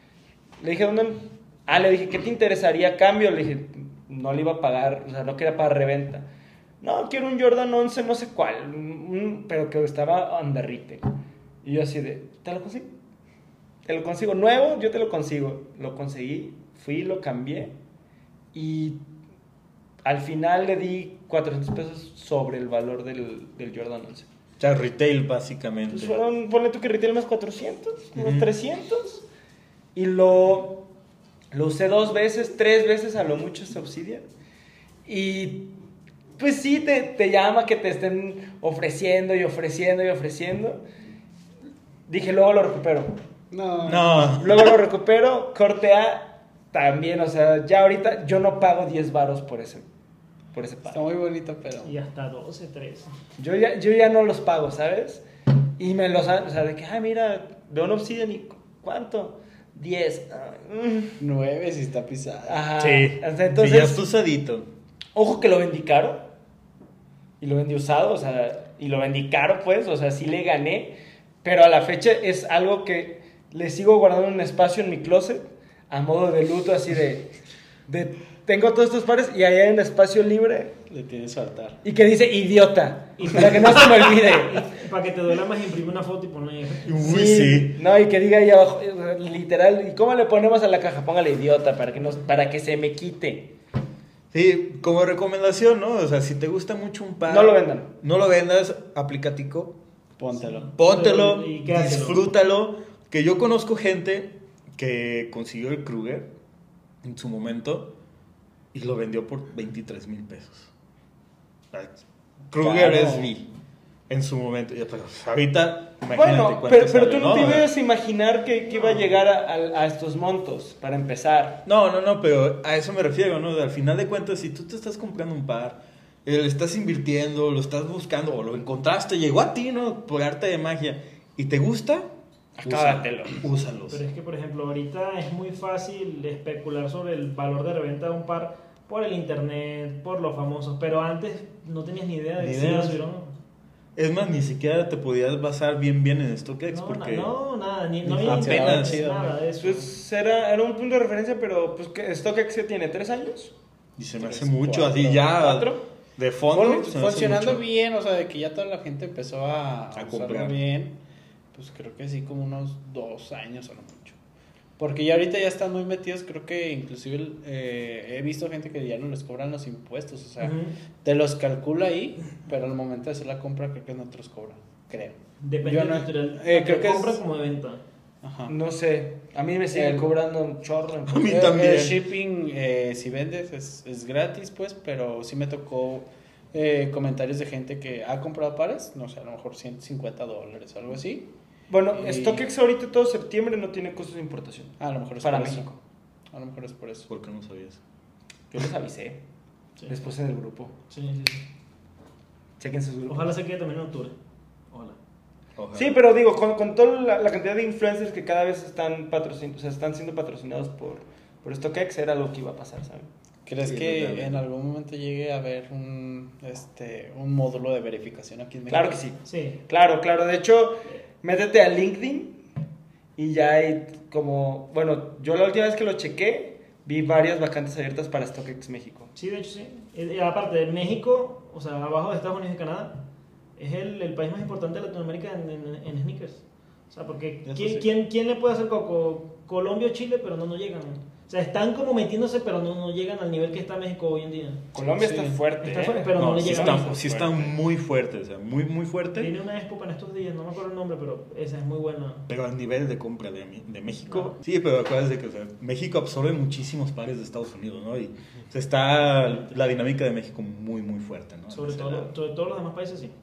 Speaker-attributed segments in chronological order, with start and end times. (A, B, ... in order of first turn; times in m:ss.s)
0:00.6-0:06.2 A
0:06.8-0:12.9 A
0:13.8-0:17.8 A
0:18.5-0:19.0 A
0:20.0-0:24.3 A
0:24.6-0:26.2 B
0:25.9-0:29.2 A
0:28.2-0:28.5 B
0:30.0-0:30.8 A
0:31.5-0:34.2 A
0:35.1-0:35.7 A
0:36.4-0:40.8 A
0:42.1-0:43.2 A
0:43.5-0:44.4 C
0:43.8-0:44.7 B
0:44.4-0:49.8 A
0:50.5-0:51.0 A
0:50.9-0:52.0 C
0:51.8-0:53.1 D
0:53.4-0:55.2 A
0:55.8-1:01.2 A
1:01.2-1:02.7 C
1:02.5-1:04.0 A
1:02.8-1:04.7 B
1:05.2-1:06.3 A
1:07.4-1:17.3 A
1:17.9-1:20.8 A
1:20.9-1:21.8 C
1:21.8-1:24.7 A
1:23.2-1:27.5 D
1:26.9-1:27.8 B
1:27.0-1:33.5 A
1:34.3-1:39.8 B
1:37.3-1:37.9 A
1:40.2-1:40.7 C
1:40.4-1:42.2 D
1:40.8-1:46.3 B
1:47.0-1:47.9 B
1:48.7-1:50.7 B
1:51.7-1:52.0 B
1:52.5-1:53.5 B
1:52.6-1:53.3 C
1:54.1-1:57.7 B
1:56.1-2:01.6 A
2:01.6-2:12.1 B
2:12.6-2:13.5 A
2:12.6-2:14.0 B
2:13.9-2:23.4 D
2:22.4-2:23.0 B
2:24.0-2:27.3 B
2:26.7-2:29.9 D
2:28.0-2:29.4 C
2:28.1-2:29.0 B
2:29.6-2:33.5 A
2:34.0-2:37.6 B
2:34.2-2:35.3 C
2:35.3-2:35.8 A
2:36.5-2:41.0 C
2:40.0-2:40.6 B
2:41.5-2:44.2 C
2:44.8-2:57.2 C
2:50.4-2:50.7 D
2:55.4-2:57.8 D
2:58.2-2:58.5 C
2:58.5-3:01.6 A
2:59.7-3:00.1 C
3:01.1-3:02.0 B
3:01.3-3:11.3 C
3:11.7-3:15.8 A
3:11.9-3:12.4 C
3:14.8-3:15.7 C
3:16.3-3:17.1 C
3:17.1-3:17.8 B
3:18.5-3:19.2 A
3:19.9-3:20.7 A
3:20.9-3:21.4 D
3:22.6-3:23.4 A
3:23.1-3:24.1 D
3:24.7-3:25.0 D
3:25.6-3:26.0 B
3:25.7-3:33.1 A
3:33.5-3:39.0 C
3:33.6-3:34.4 B
3:38.7-3:42.4 A
3:39.3-3:39.6 D
3:43.2-3:49.1 A
3:49.2-3:53.0 D
3:53.6-4:04.6 D
3:57.6-3:57.8 B
4:04.7-4:07.5 A
4:05.0-4:05.4 C
4:05.6-4:07.0 D
4:06.2-4:09.3 B
4:09.2-4:12.3 D
4:12.3-4:22.1 B
4:14.1-4:14.3 D
4:19.3-4:19.5 D
4:21.5-4:23.1 D